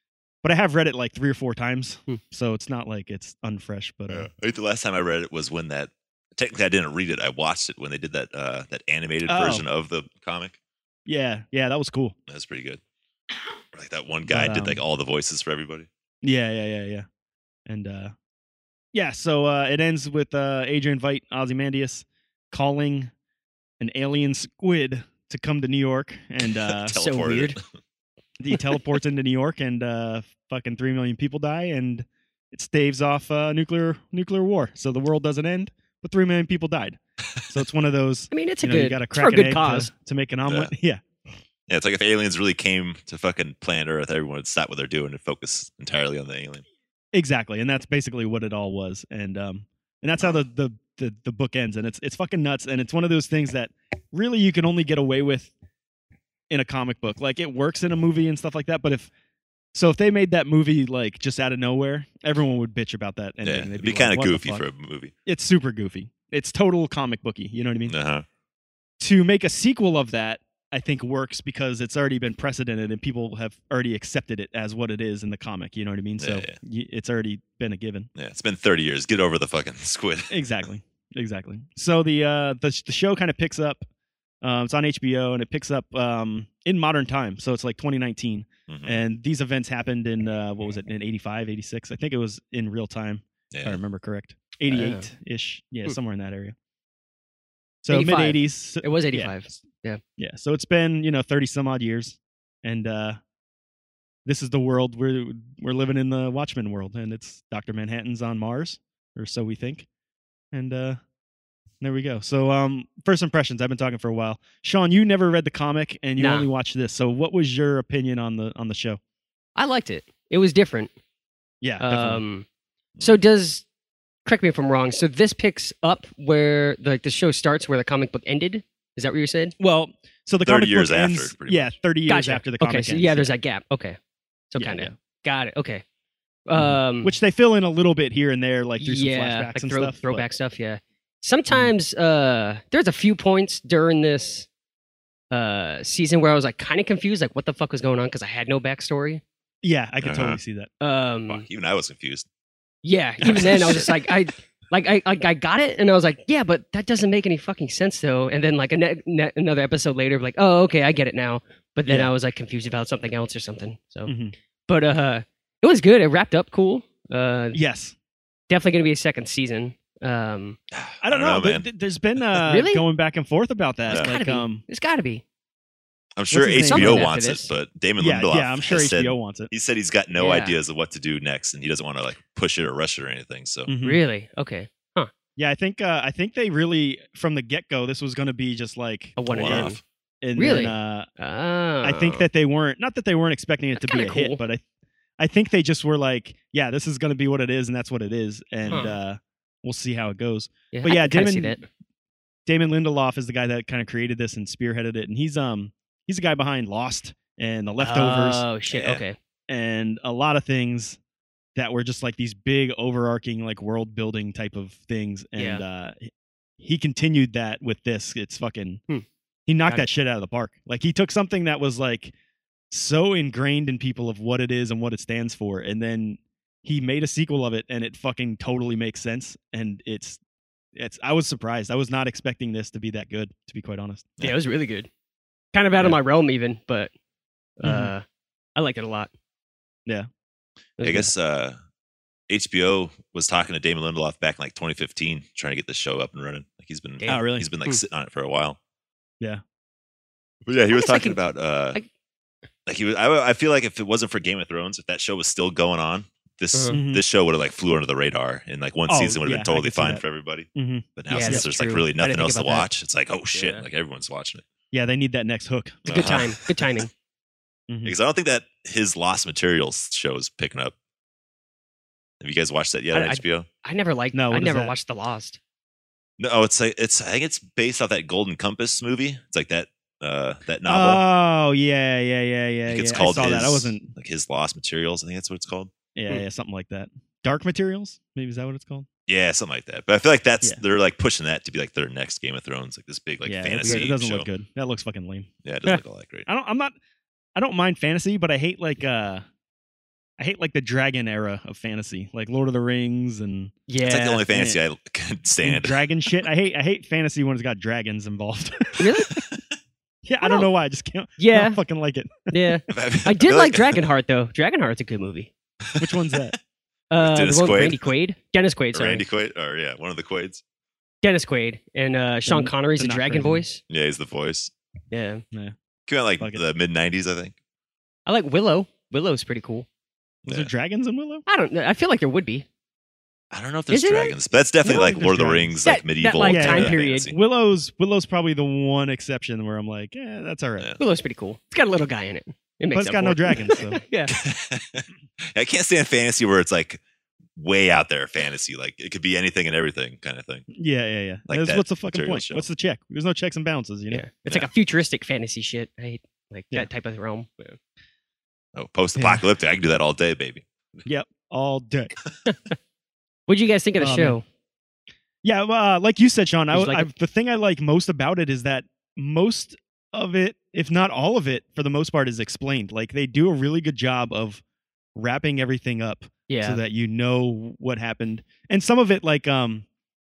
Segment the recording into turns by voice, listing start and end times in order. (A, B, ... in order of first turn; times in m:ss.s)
0:00.4-0:04.3 A
0:04.1-0:10.6 B
0:09.3-0:09.6 A
0:11.1-0:12.2 A
0:12.3-0:12.8 B
0:13.7-0:15.9 B
0:14.3-0:14.8 A
0:16.2-0:17.1 A
0:17.7-0:18.1 A
0:18.9-0:23.1 A
0:23.8-0:27.0 A
0:26.4-0:27.6 B
0:26.9-0:27.6 C
0:28.4-0:41.0 A
0:38.3-0:39.9 C
0:40.5-0:40.7 B
0:41.7-0:46.6 B
0:47.1-0:55.5 A
0:56.5-0:59.1 A
0:59.7-1:04.6 A
1:03.4-1:05.1 B
1:05.3-1:08.0 A
1:07.9-1:08.3 B
1:09.0-1:18.1 A
1:16.2-1:16.6 B
1:18.2-1:20.3 B
1:20.3-1:23.9 A
1:24.4-1:36.6 A
1:28.7-1:29.0 B
1:33.5-1:33.8 B
1:34.7-1:35.1 C
1:37.8-1:39.6 A
1:37.9-1:40.0 C
1:40.2-1:43.2 A
1:44.2-1:49.9 A
1:50.5-1:51.0 A
1:51.8-1:59.0 A
1:56.2-1:56.5 C
1:59.6-2:00.9 C
2:01.6-2:02.2 A
2:01.8-2:02.5 C
2:03.0-2:03.6 C
2:04.2-2:09.6 C
2:09.6-2:13.3 A
2:10.4-2:11.7 B
2:12.1-2:14.0 C
2:14.5-2:15.8 C
2:14.6-2:14.9 A
2:16.5-2:17.1 C
2:16.6-2:20.2 A
2:18.8-2:24.5 C
2:25.3-2:29.2 C
2:29.6-2:30.7 A
2:30.0-2:30.4 B
2:30.8-2:31.5 C
2:31.3-2:32.3 B
2:32.8-2:44.1 C
2:33.2-2:33.8 A
2:33.3-2:33.8 B
2:41.9-2:42.1 A
2:44.1-2:44.4 A
2:44.7-2:47.6 C
2:47.5-2:48.0 A
2:48.5-2:50.6 C
2:50.7-2:51.7 B
2:51.0-2:54.6 A
2:52.5-2:52.8 C
2:53.9-2:55.2 C
2:56.2-3:03.7 B
2:56.3-2:57.1 A
2:56.6-2:57.5 C
2:58.0-2:59.5 A
3:00.2-3:00.6 C
3:03.7-3:04.0 A
3:03.8-3:05.1 C
3:05.4-3:09.7 A
3:09.2-3:09.8 C
3:09.3-3:09.8 B
3:10.2-3:11.1 A
3:10.4-3:12.3 C
3:11.8-3:14.6 A
3:13.8-3:14.4 C
3:15.2-3:21.6 A
3:18.6-3:19.0 B
3:18.7-3:19.0 C
3:20.7-3:21.7 C
3:22.5-3:28.5 A
3:27.8-3:29.2 C
3:28.7-3:29.0 B
3:29.5-3:31.0 A
3:31.6-3:36.1 A
3:35.4-3:35.6 C
3:36.6-3:38.8 A
3:39.5-3:42.1 A
3:42.7-3:50.2 A
3:50.8-3:54.1 A
3:54.2-3:54.9 C
3:55.5-3:56.9 C
3:57.6-3:58.0 C
3:57.6-3:57.9 A
3:58.6-3:59.1 C
4:00.8-4:01.1 C
4:00.8-4:01.6 B
4:02.3-4:08.6 B
4:07.0-4:07.8 C
4:07.1-4:07.5 A
4:10.4-4:11.8 B
4:10.7-4:11.9 C
4:12.7-4:24.4 B
4:16.5-4:16.8 C
4:16.7-4:17.0 A
4:18.9-4:20.0 A
4:20.6-4:21.4 A
4:21.1-4:22.7 C
4:23.3-4:23.7 C
4:24.7-4:26.2 A
4:25.9-4:26.8 B
4:25.9-4:26.9 C
4:27.7-4:28.0 A
4:27.8-4:30.7 B
4:32.2-4:33.5 B
4:32.9-4:35.4 C
4:34.1-4:34.7 A
4:36.2-4:41.0 B
4:40.7-4:43.9 A
4:42.7-4:45.7 B
4:46.0-4:48.9 A
4:49.1-4:54.3 B
4:53.2-4:55.3 A
4:53.6-4:53.9 C
4:55.4-4:56.3 B
4:56.3-4:56.7 A
4:57.4-4:59.2 A
5:00.2-5:03.6 A
5:03.7-5:04.4 C
5:03.8-5:06.2 B
5:04.3-5:04.6 A
5:05.4-5:08.9 A
5:08.8-5:09.1 C
5:10.0-5:12.5 A
5:10.2-5:10.5 C
5:11.2-5:11.6 C
5:12.3-5:15.3 C
5:12.7-5:13.8 B
5:15.7-5:16.3 B
5:15.8-5:16.4 A
5:16.9-5:19.0 C
5:17.0-5:17.9 B
5:18.7-5:20.4 B
5:21.0-5:23.6 C
5:22.3-5:23.4 A
5:23.7-5:24.5 B
5:24.9-5:25.2 C
5:25.9-5:27.4 B
5:28.1-5:29.7 C
5:30.2-5:30.5 B
5:30.3-5:31.2 A
5:31.3-5:32.5 C
5:33.3-5:37.2 B
5:33.7-5:34.9 C
5:34.6-5:35.6 A
5:35.6-5:37.1 C
5:36.2-5:40.7 A
5:40.8-5:44.1 C
5:42.7-5:43.8 A
5:44.1-5:46.8 B
5:47.4-5:50.4 B
5:50.5-5:54.0 A
5:51.3-5:52.5 B
5:53.9-5:57.6 C
5:58.6-6:00.8 B
5:59.0-5:59.2 A
6:00.8-6:01.9 A
6:02.3-6:02.6 C
6:03.3-6:04.2 C
6:03.8-6:04.2 A
6:05.2-6:14.4 A
6:06.5-6:06.9 C
6:15.0-6:19.7 A
6:16.3-6:16.6 C